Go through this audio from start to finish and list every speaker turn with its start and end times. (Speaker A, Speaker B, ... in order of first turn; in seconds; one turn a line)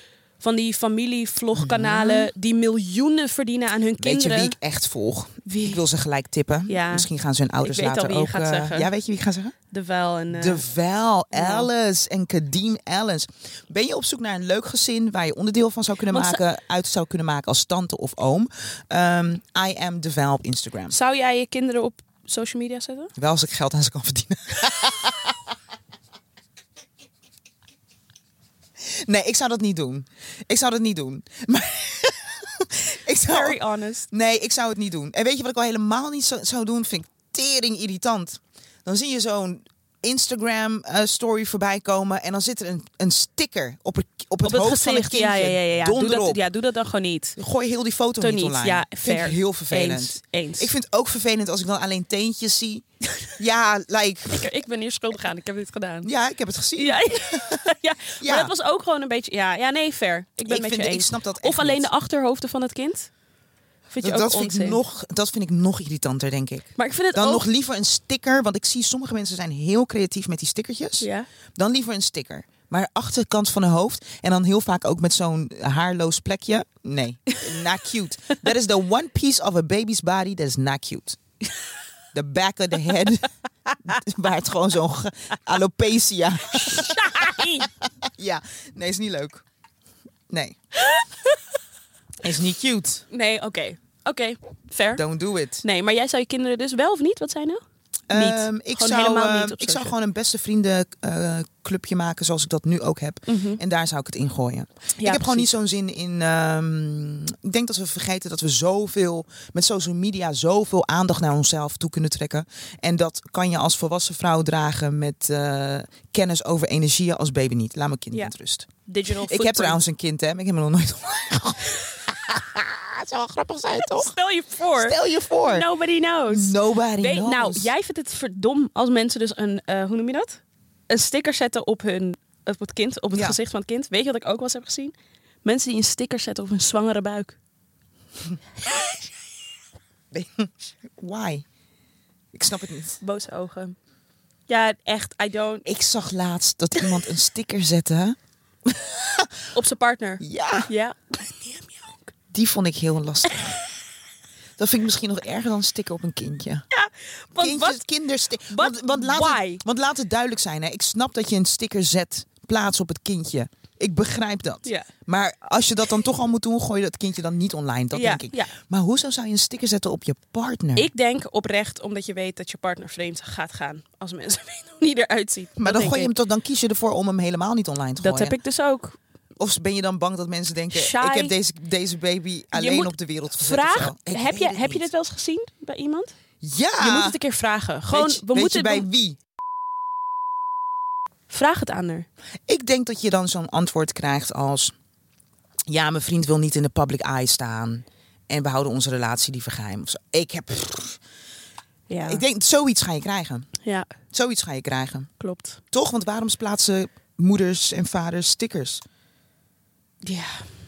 Speaker A: 0.4-4.5
Speaker B: 1.5-2.3
Speaker B: 4.0-9.5
Speaker A: 5.5-5.8
Speaker A: 6.7-7.1
Speaker A: 7.6-8.9
Speaker A: 9.7-10.6
Speaker B: 10.3-20.9
Speaker A: 11.3-11.7
Speaker A: 16.1-16.4
Speaker A: 20.9-23.1
Speaker B: 23.1-25.3
Speaker B: 28.8-46.4
Speaker A: 33.2-34.1
Speaker A: 44.4-47.4
Speaker B: 47.4-52.8
Speaker A: 48.2-50.7
Speaker B: 53.4-54.5
Speaker A: 54.3-56.1
Speaker B: 56.0-57.6
Speaker A: 56.8-63.1
Speaker B: 58.2-58.5
Speaker B: 60.5-61.9
Speaker A: 63.9-64.8
Speaker B: 64.0-81.2
Speaker A: 66.8-67.4
Speaker A: 71.0-71.3
Speaker B: 82.1-83.3
Speaker B: 83.8-89.4
Speaker A: 86.5-87.7
Speaker B: 90.3-90.6
Speaker A: 90.8-91.4
Speaker B: 92.2-93.0
Speaker A: 93.1-95.0
Speaker B: 95.0-95.6
Speaker A: 95.6-97.6
Speaker B: 98.1-124.1
Speaker A: 98.1-99.9
Speaker A: 103.3-103.6
Speaker A: 105.0-105.5
Speaker A: 118.8-119.8
Speaker A: 123.8-137.4
Speaker B: 124.8-125.7
Speaker B: 126.3-127.7
Speaker B: 133.1-133.4
Speaker B: 140.1-141.4
Speaker B: 142.3-143.0
Speaker A: 143.0-143.8
Speaker A: 144.5-145.7
Speaker B: 145.6-149.4
Speaker A: 149.5-152.1
Speaker B: 150.2-150.7
Speaker B: 152.3-153.6
Speaker A: 153.3-153.6
Speaker B: 154.6-156.6
Speaker A: 156.7-157.8
Speaker B: 157.4-170.9
Speaker A: 158.5-159.6
Speaker A: 167.9-168.5
Speaker A: 170.8-176.1
Speaker B: 175.6-178.4
Speaker A: 178.0-179.0
Speaker B: 179.4-184.9
Speaker A: 180.7-181.3
Speaker A: 182.5-186.1
Speaker B: 186.4-187.2
Speaker A: 186.8-188.8
Speaker B: 187.9-189.2
Speaker A: 191.3-192.1
Speaker B: 192.5-194.7
Speaker B: 195.7-201.0
Speaker A: 201.9-202.2
Speaker B: 202.1-203.5
Speaker A: 203.6-203.9
Speaker B: 204.1-205.1
Speaker A: 205.2-205.6
Speaker B: 205.7-208.8
Speaker A: 210.0-210.5